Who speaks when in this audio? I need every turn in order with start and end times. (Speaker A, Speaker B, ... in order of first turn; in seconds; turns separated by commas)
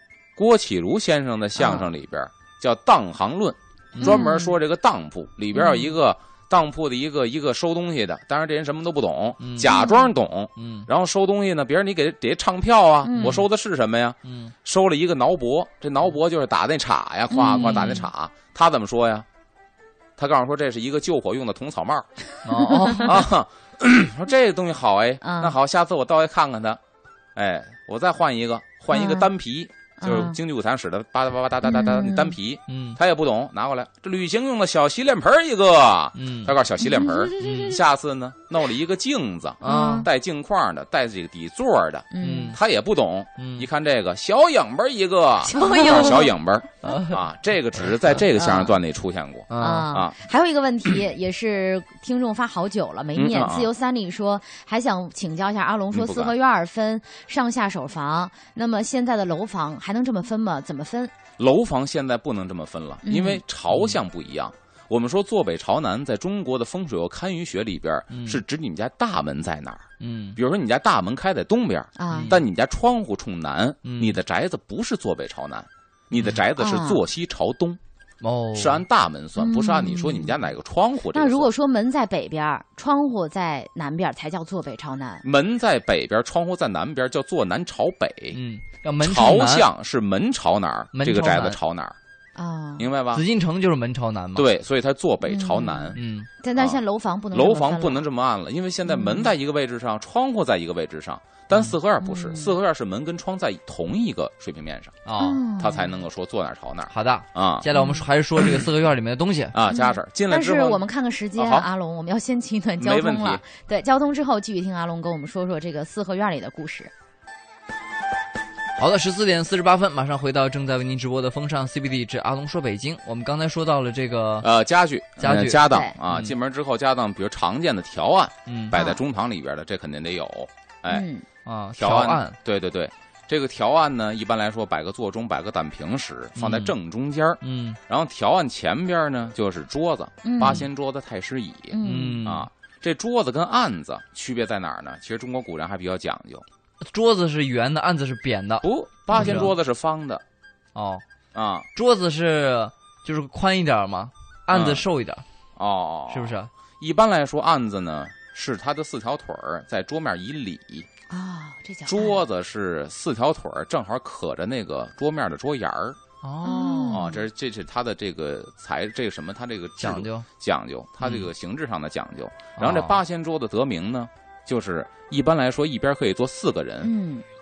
Speaker A: 0.4-19.3, Speaker B: 1.6-1.9, Speaker C: 3.9-4.2, Speaker B: 4.0-4.5, Speaker B: 5.5-6.0, Speaker C: 9.4-9.8, Speaker B: 9.7-10.1, Speaker C: 10.6-10.9, Speaker B: 13.1-13.4, Speaker C: 13.2-13.4, Speaker C: 14.2-14.5, Speaker B: 17.3-18.1, Speaker C: 17.4-18.1, Speaker A: 20.2-22.1, Speaker C: 22.4-23.3, Speaker A: 23.0-26.8, Speaker B: 25.2-25.6, Speaker A: 27.4-50.2, Speaker B: 28.9-29.3, Speaker B: 30.0-30.4, Speaker B: 31.6-32.4, Speaker C: 32.7-33.0, Speaker C: 36.1-36.5, Speaker B: 36.8-37.8, Speaker C: 37.4-37.8, Speaker C: 39.6-40.1, Speaker B: 39.6-40.1, Speaker B: 42.1-42.6, Speaker C: 42.2-42.6, Speaker C: 43.4-43.7, Speaker B: 45.5-46.3, Speaker C: 46.8-47.2, Speaker B: 48.4-48.8, Speaker C: 49.5-49.9, Speaker B: 49.6-61.1, Speaker A: 53.1-53.7, Speaker A: 55.9-56.3, Speaker A: 61.4-77.8, Speaker B: 63.0-63.4, Speaker C: 68.1-68.4, Speaker C: 70.0-70.4, Speaker B: 72.0-72.4, Speaker C: 72.1-72.4, Speaker C: 73.8-74.2, Speaker B: 76.6-77.0, Speaker C: 78.2-78.8, Speaker A: 78.5-81.5, Speaker B: 79.4-80.4, Speaker B: 81.1-85.2, Speaker A: 85.2-88.4, Speaker C: 88.3-89.7, Speaker A: 89.0-92.0, Speaker C: 90.9-91.6, Speaker B: 92.4-92.9, Speaker A: 92.8-93.2, Speaker C: 93.1-94.5, Speaker A: 94.3-96.0, Speaker B: 95.3-98.1, Speaker C: 96.0-96.3, Speaker A: 97.3-105.1, Speaker B: 98.9-99.3, Speaker B: 102.0-102.5, Speaker C: 105.0-105.4, Speaker B: 105.2-106.0, Speaker A: 105.6-107.7, Speaker C: 106.9-109.6, Speaker B: 107.7-108.1, Speaker A: 109.5-110.8, Speaker B: 109.7-116.9, Speaker A: 111.4-111.7, Speaker A: 112.8-113.4, Speaker C: 118.8-124.5, Speaker A: 124.4-131.1, Speaker C: 125.2-126.3, Speaker B: 125.7-126.0, Speaker C: 128.5-128.7, Speaker B: 128.7-129.0, Speaker B: 130.9-131.3, Speaker C: 131.4-132.4, Speaker A: 131.8-146.4, Speaker C: 136.4-136.8, Speaker C: 137.4-137.8, Speaker B: 140.2-140.7, Speaker B: 141.7-142.3, Speaker C: 141.8-142.5, Speaker C: 146.8-149.5, Speaker A: 148.6-150.2, Speaker B: 149.2-149.4, Speaker C: 150.8-151.0, Speaker A: 151.3-151.7, Speaker C: 151.8-155.2, Speaker A: 154.5-154.8, Speaker A: 155.6-160.9, Speaker C: 156.1-156.5, Speaker B: 161.1-162.2, Speaker A: 161.8-166.0, Speaker C: 166.2-167.0, Speaker B: 166.4-167.2, Speaker A: 166.9-176.9, Speaker C: 169.8-170.3, Speaker C: 171.0-171.3, Speaker C: 172.6-173.0, Speaker B: 176.8-177.2